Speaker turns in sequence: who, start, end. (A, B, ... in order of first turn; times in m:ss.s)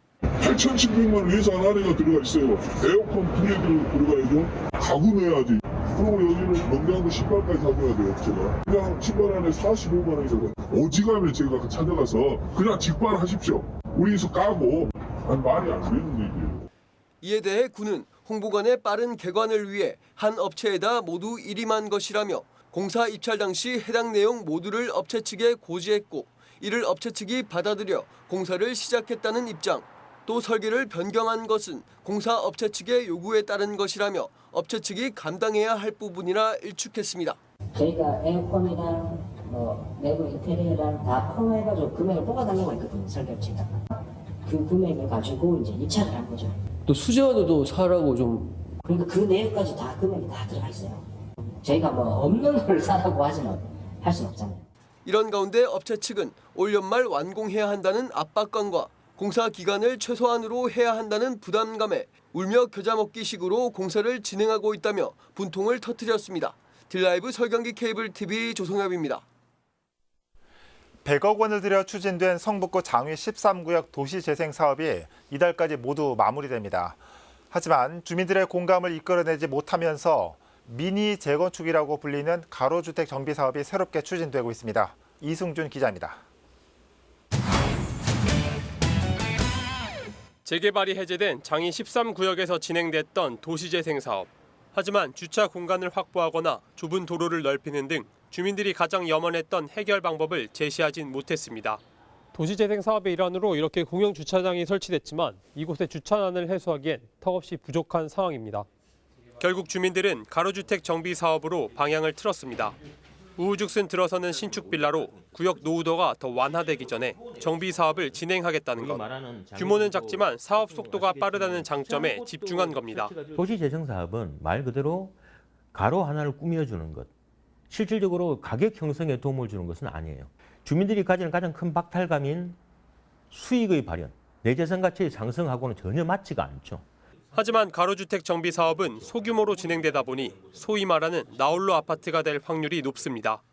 0:00.4-0:16.7 A
0:17.2-0:37.4 B
0:37.7-0:43.8 C
0:44.4-0:46.6 C
0:48.8-0:51.0 C
0:51.6-0:54.6 C
0:55.0-1:09.2 B
1:11.0-1:17.0 D
1:17.5-1:26.2 D
1:30.4-1:41.8 E
1:42.3-1:48.7 E
1:49.4-1:52.8 E
1:53.4-2:03.1 E
1:54.5-1:55.6 F
1:56.6-2:05.2 F
2:05.7-2:07.1 F
2:07.7-2:12.6 F
2:13.3-2:16.9 F
2:17.3-2:23.4 E
2:19.0-2:21.7 F